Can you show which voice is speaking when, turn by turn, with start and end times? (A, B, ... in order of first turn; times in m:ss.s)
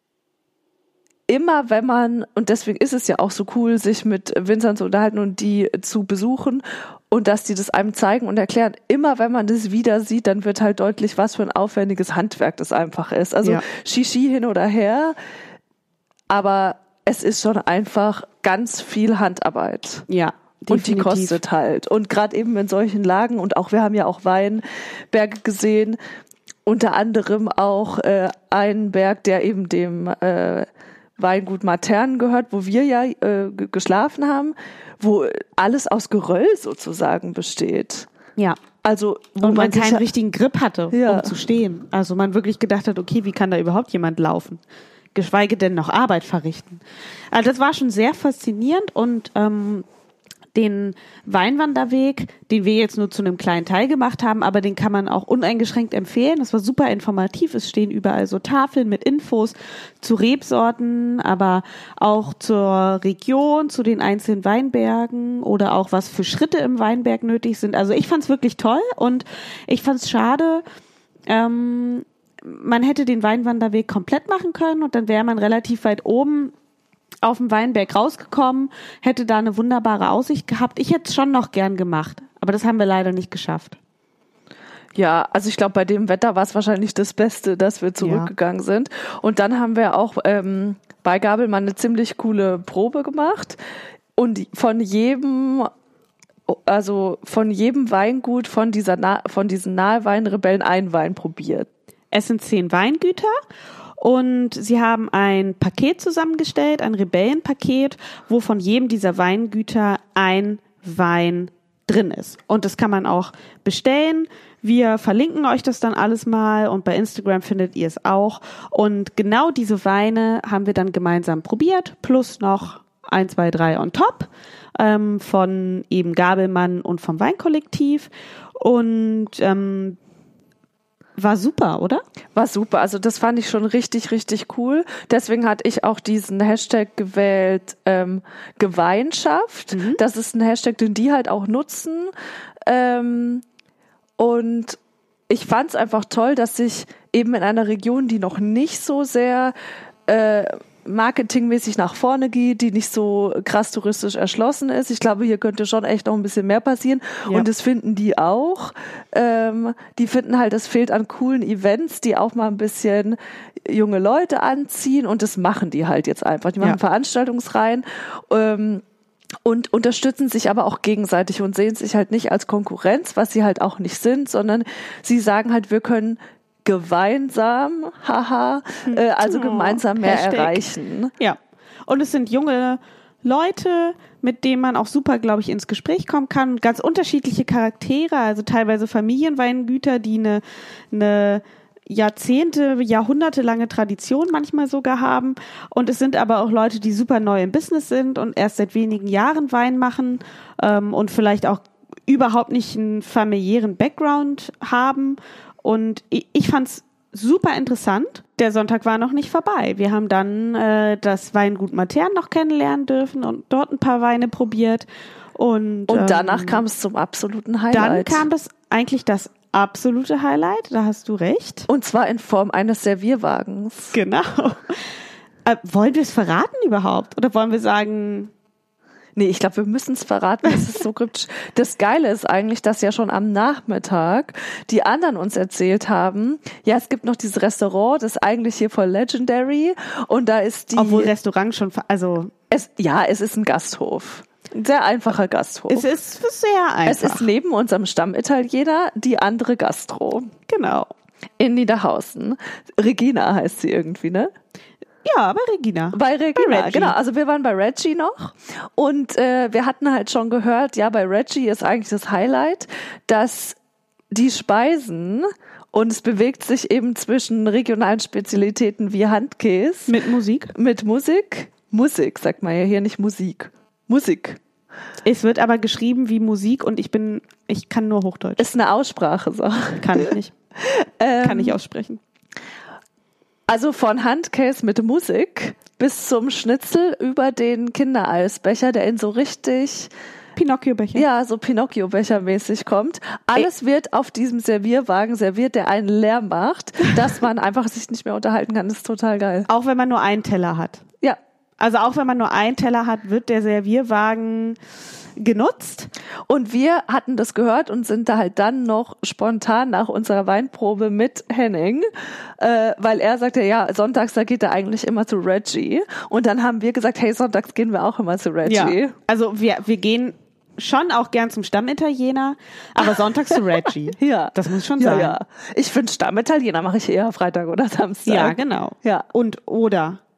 0:01.3-0:15.2 A
0:16.3-0:20.1 A
0:20.1-0:21.4 B
0:20.7-0:26.0 A
0:26.7-0:30.7 A
0:31.2-0:38.1 A
0:38.8-0:40.0 A
0:39.4-0:44.6 B
0:40.9-0:41.4 A
0:45.1-0:49.8 B
0:50.5-1:10.6 B
1:11.3-1:16.5 B
1:17.2-1:23.8 B
1:25.0-1:33.6 A
1:28.0-1:28.3 B
1:34.2-1:35.7 A
1:36.5-1:41.7 A
1:42.1-1:43.3 B
1:44.0-2:10.0 B
2:11.2-2:12.0 B
2:12.4-2:22.1 A
2:19.7-2:20.0 B
2:22.6-2:23.4 A
2:24.2-2:24.8 A
2:25.3-2:29.5 A
2:30.1-2:48.8 A
2:49.4-3:01.1 A
2:58.9-3:00.6 B
3:01.2-3:36.6 B
3:35.9-3:38.3 A
3:37.7-3:41.7 B
3:41.7-3:44.0 A
3:43.9-3:44.9 B
3:45.4-3:48.3 B
3:49.2-4:01.1 A
4:00.8-4:02.3 B
4:02.5-4:05.9 A
4:05.7-4:07.3 B
4:06.9-4:10.3 A
4:10.5-4:10.9 B
4:11.4-4:14.3 A
4:15.0-4:17.0 B
4:16.0-4:23.6 A
4:24.1-4:30.0 A
4:29.9-4:30.5 B
4:30.5-4:34.4 A
4:35.0-4:38.5 B
4:38.4-4:41.6 A
4:39.8-4:40.3 B
4:41.2-4:42.0 B
4:43.5-4:49.9 A
4:50.4-4:51.0 B
4:51.0-4:59.5 A
4:59.5-5:00.8 B
5:01.6-5:04.6 B
5:05.2-5:05.9 B
5:06.3-5:19.0 A
5:18.4-5:25.2 B
5:24.0-5:29.1 A
5:28.1-5:30.0 B